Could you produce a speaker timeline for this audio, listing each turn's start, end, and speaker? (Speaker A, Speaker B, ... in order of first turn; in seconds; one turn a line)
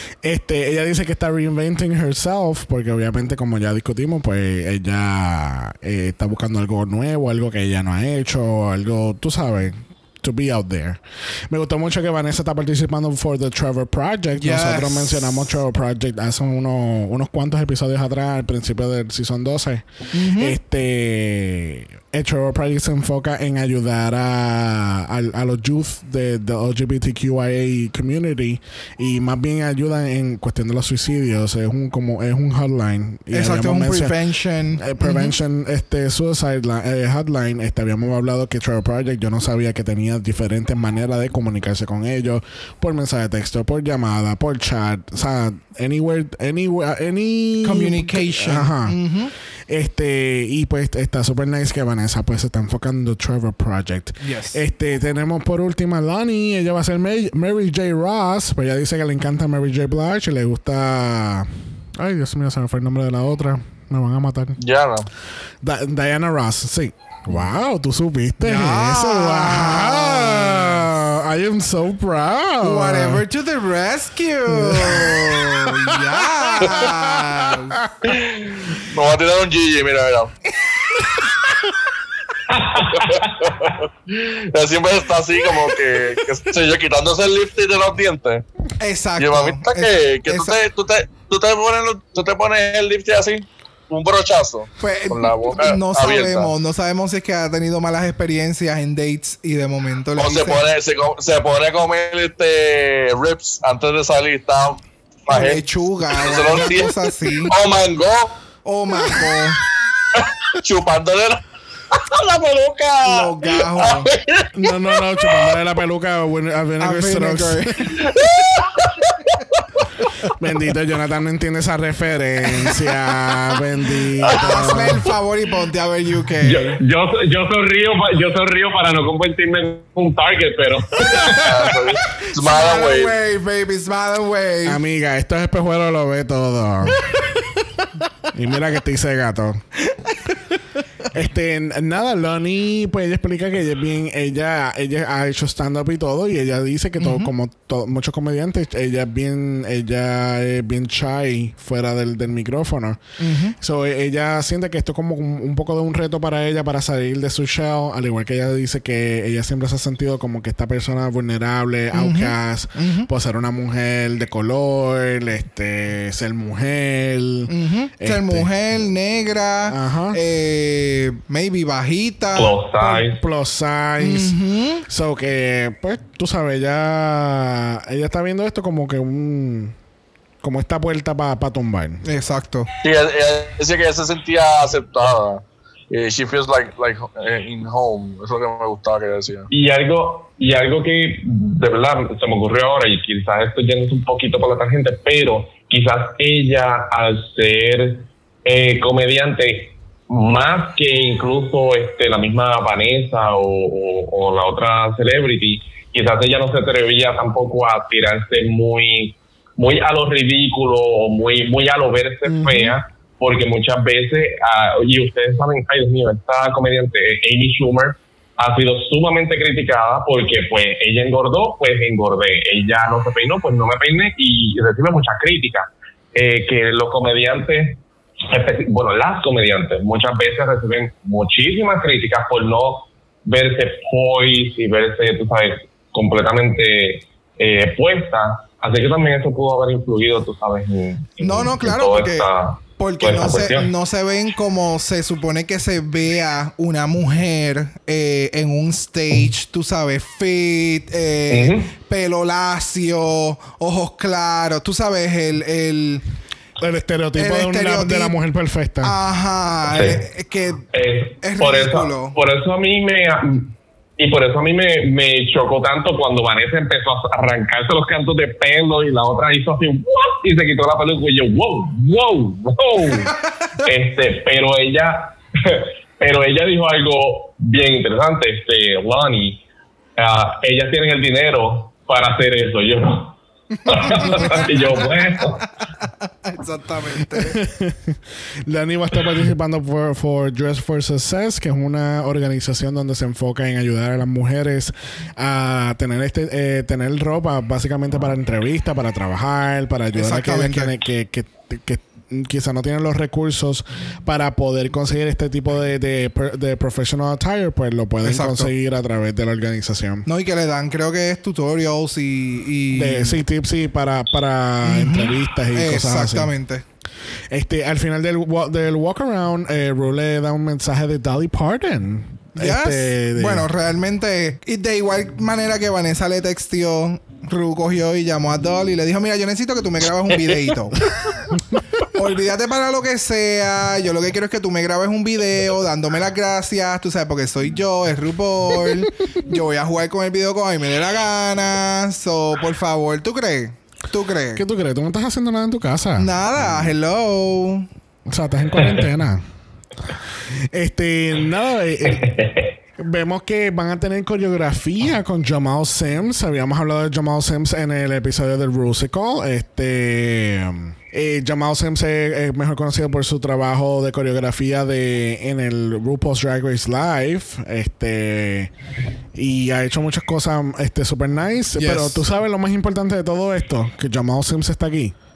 Speaker A: 0.2-34.1
Speaker B: 14.4-15.6
Speaker B: 20.1-20.6
Speaker B: 33.3-35.4
Speaker A: 34.8-49.0
Speaker B: 47.6-49.3
Speaker A: 49.7-64.6
Speaker B: 54.2-54.6
Speaker C: 64.6-65.1
Speaker A: 65.6-73.2
Speaker B: 68.4-70.9
Speaker B: 72.6-77.8
Speaker A: 74.5-76.1
Speaker C: 76.6-76.9
Speaker A: 76.6-78.1
Speaker C: 78.1-80.3
Speaker B: 80.5-81.3
Speaker D: 82.5-83.6
Speaker C: 82.8-88.5
Speaker B: 88.8-90.6
Speaker C: 89.2-96.5
Speaker B: 94.8-100.7
Speaker C: 100.2-108.4
Speaker B: 105.3-107.5
Speaker B: 108.7-109.6
Speaker C: 110.1-115.5
Speaker B: 113.0-114.1
Speaker A: 114.5-117.9
Speaker B: 116.8-118.3
Speaker C: 118.0-119.6
Speaker A: 120.2-125.1
Speaker C: 124.2-124.7
Speaker B: 124.3-126.8
Speaker D: 126.4-131.4
Speaker A: 131.1-131.5
Speaker C: 131.4-133.1
Speaker B: 132.3-134.8
Speaker A: 134.7-137.0
Speaker B: 137.0-137.8
Speaker A: 138.3-139.6
Speaker B: 139.9-140.4
Speaker A: 141.1-153.0
Speaker B: 147.0-147.3
Speaker B: 153.2-153.6
Speaker A: 153.6-168.5
Speaker B: 161.9-163.1
Speaker B: 167.5-173.1
Speaker A: 169.7-170.2
Speaker D: 172.3-173.2
Speaker A: 173.1-179.8
Speaker B: 174.0-174.8
Speaker A: 180.4-182.0
Speaker B: 182.0-182.7
Speaker C: 182.8-189.5
Speaker D: 189.5-243.7
Speaker A: 212.3-212.8
Speaker B: 241.2-256.0
Speaker D: 251.3-251.7
Speaker A: 256.6-258.9
Speaker B: 257.2-258.2
Speaker B: 258.8-260.7
Speaker D: 259.7-260.0
Speaker D: 260.7-279.4
Speaker B: 261.2-262.1
Speaker D: 280.0-285.5
Speaker B: 283.7-285.0
Speaker B: 285.8-287.4
Speaker A: 287.1-310.1
Speaker B: 300.0-300.7
Speaker B: 308.0-308.5
Speaker B: 310.1-313.2
Speaker A: 312.7-316.3
Speaker B: 314.6-316.6
Speaker A: 317.3-323.5
Speaker B: 322.4-330.9
Speaker A: 331.1-331.6
Speaker B: 331.9-344.4
Speaker A: 338.6-338.9
Speaker A: 344.4-346.7
Speaker B: 346.0-347.7
Speaker A: 348.1-349.2
Speaker A: 350.5-352.1
Speaker D: 351.9-352.5
Speaker A: 352.8-368.5
Speaker A: 369.1-374.9
Speaker B: 371.6-372.0